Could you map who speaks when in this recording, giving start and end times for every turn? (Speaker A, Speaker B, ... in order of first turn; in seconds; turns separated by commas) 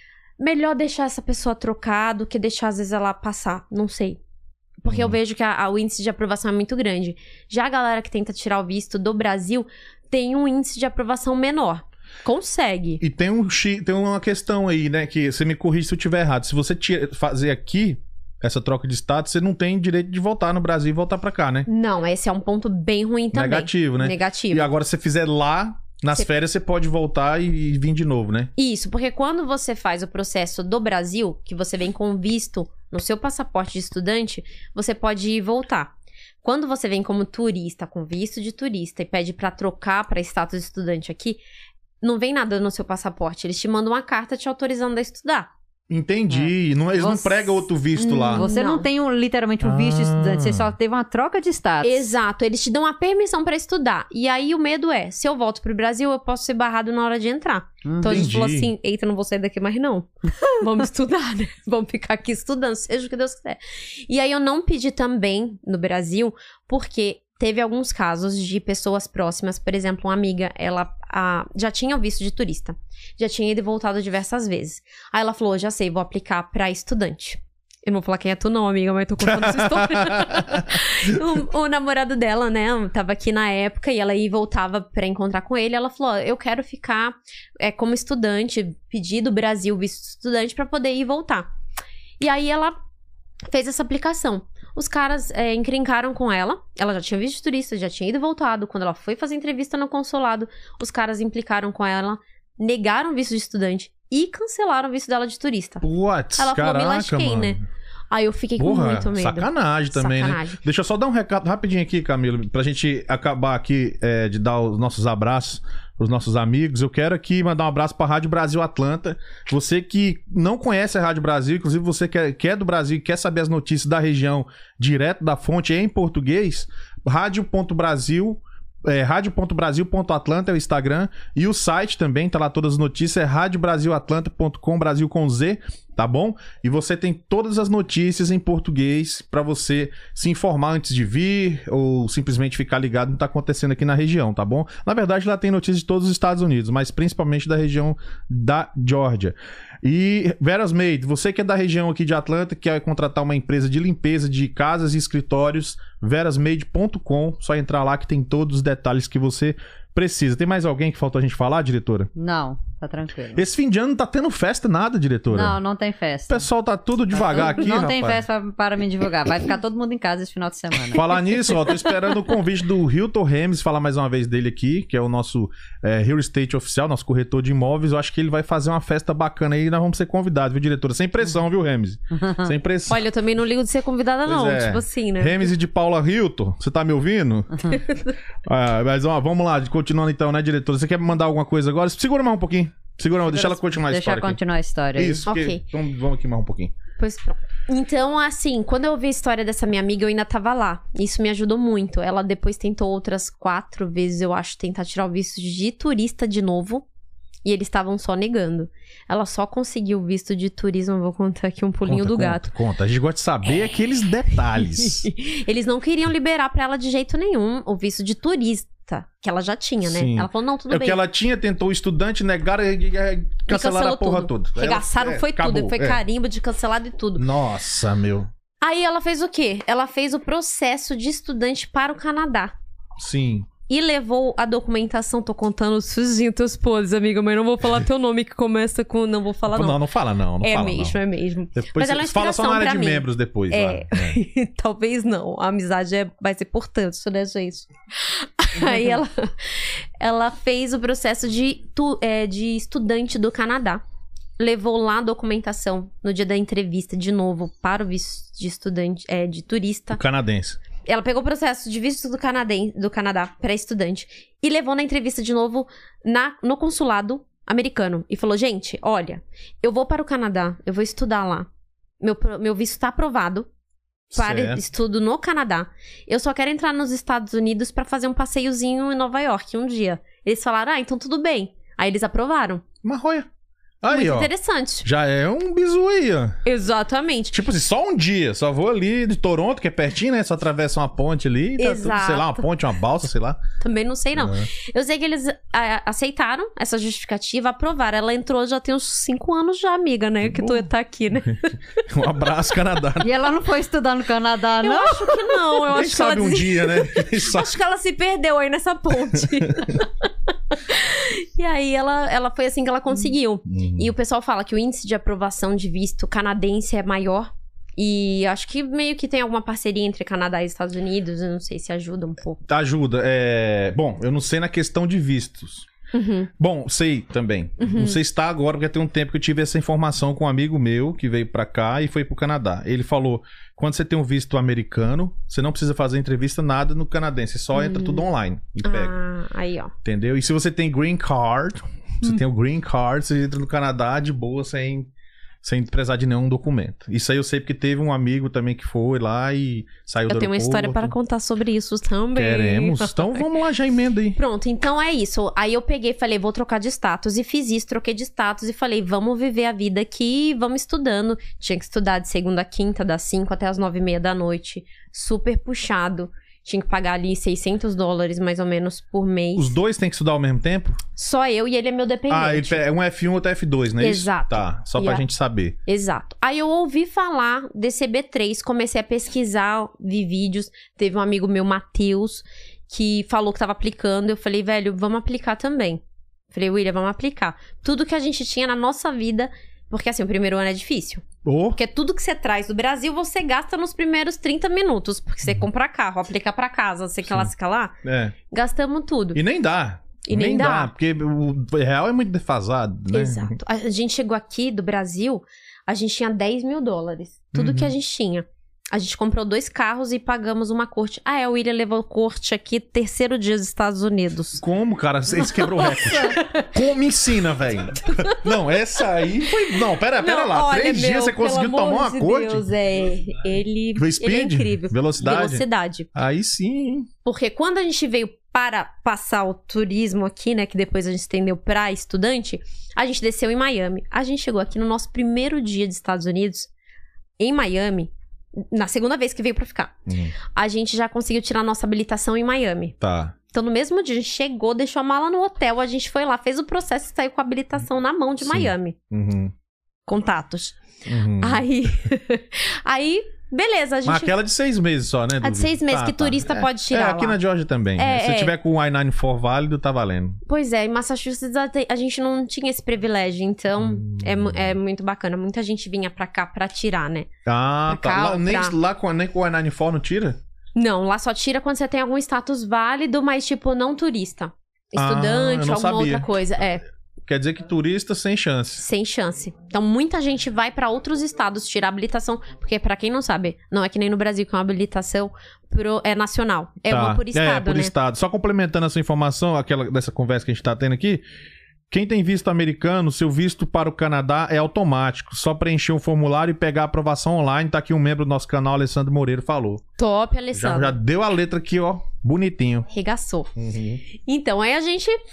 Speaker A: 0.4-4.2, Speaker A: 4.8-13.0, Speaker B: 4.9-5.2, Speaker B: 13.0-21.7, Speaker A: 21.7-24.7, Speaker B: 23.3-28.5, Speaker A: 28.6-35.9, Speaker A: 36.4-41.4, Speaker A: 42.0-45.5, Speaker B: 45.9-48.4, Speaker C: 46.3-47.6, Speaker A: 48.0-48.9, Speaker C: 48.3-52.1, Speaker B: 49.6-50.7, Speaker A: 51.8-91.5, Speaker C: 57.9-58.4, Speaker B: 58.0-58.7, Speaker B: 79.3-80.8, Speaker A: 92.2-92.8, Speaker A: 93.5-105.8, Speaker B: 105.8-107.6, Speaker A: 106.4-107.6, Speaker A: 108.1-110.6, Speaker B: 108.6-162.1, Speaker C: 162.2-163.4, Speaker B: 163.3-165.6, Speaker C: 165.3-166.5, Speaker B: 166.3-168.2, Speaker C: 167.1-171.1, Speaker B: 170.9-183.0, Speaker C: 182.2-182.5, Speaker A: 182.9-185.5, Speaker B: 184.3-187.8, Speaker B: 188.5-194.4, Speaker C: 193.2-195.2, Speaker B: 195.0-196.7, Speaker A: 195.3-195.6, Speaker A: 197.0-206.8, Speaker A: 207.4-212.5, Speaker B: 211.8-215.1, Speaker A: 214.6-221.0, Speaker B: 219.8-226.0, Speaker A: 223.5-227.2, Speaker B: 227.2-228.3, Speaker A: 228.6-232.5, Speaker B: 233.0-233.5, Speaker A: 233.7-239.8, Speaker B: 239.5-241.0, Speaker A: 240.4-253.8, Speaker B: 241.6-244.2, Speaker A: 254.4-260.0, Speaker B: 259.9-260.6, Speaker A: 260.9-271.5, Speaker A: 272.0-273.5, Speaker B: 274.1-274.6, Speaker A: 274.1-282.6, Speaker B: 282.8-283.3, Speaker B: 283.8-284.3, Speaker A: 283.9-284.9, Speaker B: 284.8-286.4, Speaker A: 286.5-287.4, Speaker B: 287.3-293.4, Speaker A: 291.6-292.4, Speaker A: 293.6-301.6, Speaker B: 294.2-294.5, Speaker B: 300.2-300.7, Speaker B: 301.9-303.1, Speaker C: 303.0-305.4, Speaker A: 304.6-309.9, Speaker B: 305.7-307.5, Speaker A: 310.7-322.4, Speaker B: 313.5-313.9, Speaker B: 322.5-325.7, Speaker A: 325.9-326.3, Speaker B: 326.4-338.9, Speaker A: 327.6-328.0, Speaker A: 337.5-338.1, Speaker A: 338.6-339.7, Speaker B: 339.8-344.9, Speaker B: 345.4-350.9, Speaker A: 350.1-353.3, Speaker B: 352.1-354.2, Speaker A: 354.2-369.5, Speaker B: 369.4-370.8, Speaker A: 371.0-372.6, Speaker B: 372.1-375.6, Speaker A: 373.8-375.1, Speaker A: 375.7-385.8, Speaker A: 386.3-397.8, Speaker B: 391.2-391.6, Speaker B: 397.8-398.1, Speaker A: 398.3-399.2, Speaker B: 399.1-403.4, Speaker A: 400.1-400.7, Speaker A: 402.9-414.4, Speaker B: 407.3-407.7, Speaker B: 414.4-422.5, Speaker A: 415.2-416.5, Speaker A: 417.9-418.2, Speaker A: 420.0-425.9, Speaker B: 423.8-426.9, Speaker A: 427.1-436.5, Speaker A: 437.2-437.9, Speaker A: 438.5-439.8, Speaker B: 439.9-440.1, Speaker A: 440.3-442.8, Speaker B: 442.8-443.1, Speaker A: 443.3-448.8, Speaker B: 448.2-449.3, Speaker A: 449.9-450.6, Speaker B: 450.9-451.4, Speaker A: 451.2-454.1, Speaker B: 453.9-460.2, Speaker A: 455.2-457.2, Speaker A: 457.8-458.3, Speaker A: 460.3-467.1, Speaker B: 463.6-464.6, Speaker B: 467.3-470.2, Speaker A: 467.7-468.6, Speaker A: 470.6-476.6, Speaker B: 474.8-476.1, Speaker B: 477.1-478.6, Speaker A: 478.6-487.7, Speaker B: 486.7-491.0, Speaker B: 491.7-499.6, Speaker A: 499.8-500.8, Speaker B: 500.3-502.7, Speaker A: 502.7-503.3, Speaker B: 503.4-503.8, Speaker A: 504.0-505.0